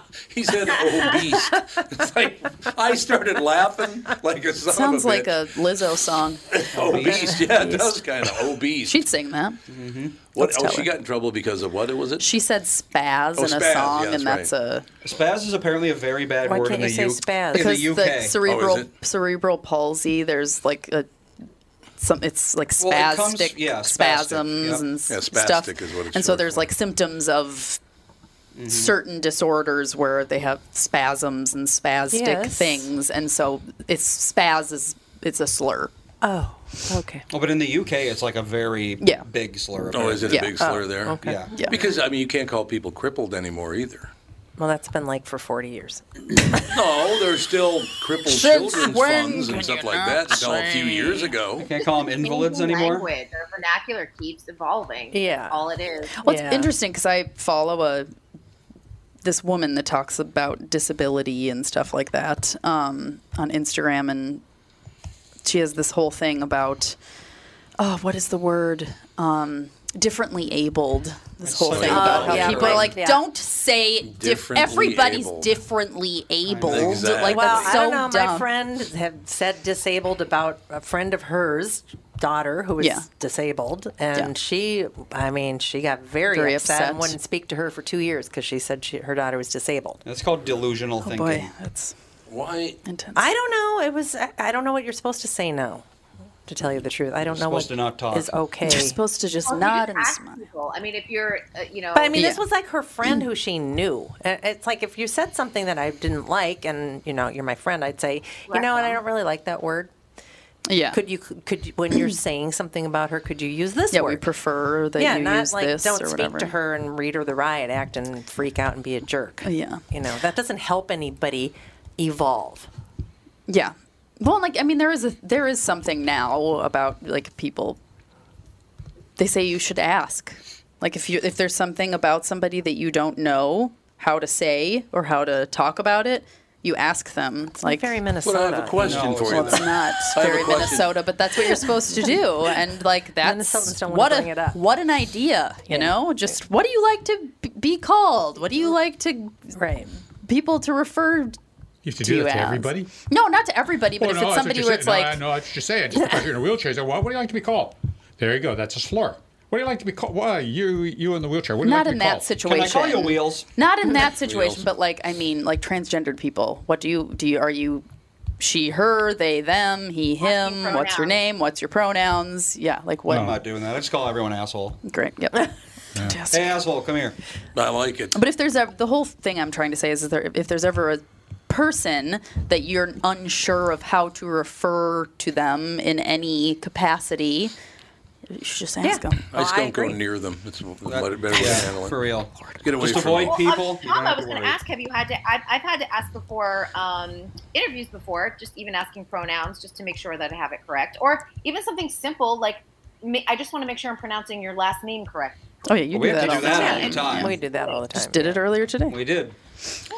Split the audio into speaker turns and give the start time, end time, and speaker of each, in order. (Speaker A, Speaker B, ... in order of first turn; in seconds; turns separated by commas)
Speaker A: 0.3-5.4, Speaker B: 0.8-1.1, Speaker C: 4.7-6.4, Speaker A: 6.5-9.0, Speaker D: 6.7-7.5, Speaker C: 8.8-9.6, Speaker D: 9.7-10.3, Speaker C: 10.3-10.9, Speaker A: 10.3-12.3, Speaker C: 12.2-14.9, Speaker A: 13.4-14.5, Speaker D: 15.0-18.4, Speaker E: 16.4-17.8, Speaker C: 17.5-21.1, Speaker A: 18.5-18.9, Speaker C: 22.0-27.8, Speaker D: 22.8-24.9, Speaker A: 25.1-26.7, Speaker D: 28.6-29.0, Speaker C: 28.7-35.9, Speaker E: 32.1-32.9, Speaker E: 36.2-37.3, Speaker D: 37.3-40.5, Speaker C: 39.0-39.3, Speaker A: 39.9-44.1, Speaker C: 40.3-40.6, Speaker E: 40.6-41.4, Speaker D: 41.2-41.5, Speaker C: 41.5-41.8, Speaker E: 44.6-46.0, Speaker A: 46.5-51.7, Speaker C: 48.3-49.4, Speaker D: 51.6-53.1, Speaker B: 51.8-56.2, Speaker E: 55.1-55.6, Speaker C: 56.2-58.1, Speaker E: 56.2-56.7, Speaker C: 59.2-64.4, Speaker C: 65.4-67.0, Speaker C: 67.8-78.5, Speaker D: 71.4-73.0, Speaker A: 71.7-72.6, Speaker E: 71.8-73.2, Speaker A: 74.0-75.6, Speaker D: 76.5-77.0, Speaker A: 76.7-77.8, Speaker E: 77.0-90.0, Speaker C: 82.8-83.1, Speaker C: 86.3-87.2, Speaker D: 90.0-91.5, Speaker C: 91.0-92.0, Speaker A: 92.3-92.8, Speaker C: 92.8-93.3, Speaker E: 93.2-95.8, Speaker E: 96.5-99.0, Speaker D: 97.2-98.4, Speaker C: 98.6-100.5, Speaker B: 99.5-102.2, Speaker E: 102.0-109.9, Speaker C: 102.1-102.5, Speaker B: 108.5-109.0, Speaker C: 110.7-111.0, Speaker E: 110.9-114.3, Speaker C: 113.9-116.5, Speaker E: 115.0-122.7, Speaker C: 119.4-119.8, Speaker C: 123.5-127.8, Speaker C: 129.2-138.0, Speaker E: 137.6-139.2, Speaker A: 138.2-140.9, Speaker D: 138.8-139.8, Speaker C: 139.3-149.5, Speaker E: 141.5-142.2, Speaker E: 143.2-144.6, Speaker E: 145.7-146.3, Speaker E: 149.6-149.9, Speaker C: 150.2-151.4, Speaker F: 151.8-152.9, Speaker C: 152.0-155.2, Speaker F: 154.0-162.4, Speaker C: 161.6-167.9, Speaker D: 162.4-163.5, Speaker A: 164.2-164.7, Speaker C: 168.4-173.3, Speaker B: 170.2-171.2, Speaker F: 173.1-173.4, Speaker D: 173.1-174.8, Speaker C: 174.8-176.6, Speaker D: 176.3-177.2, Speaker A: 177.6-178.2, Speaker C: 178.1-187.5, Speaker C: 188.3-189.2, Speaker E: 188.8-190.0, Speaker A: 189.3-192.0, Speaker D: 190.9-194.6, Speaker A: 192.6-193.4, Speaker B: 193.2-205.4, Speaker C: 205.7-207.4, Speaker D: 205.9-207.4, Speaker B: 206.4-207.9, Speaker E: 206.4-208.4, Speaker C: 207.9-209.0, Speaker D: 208.9-209.4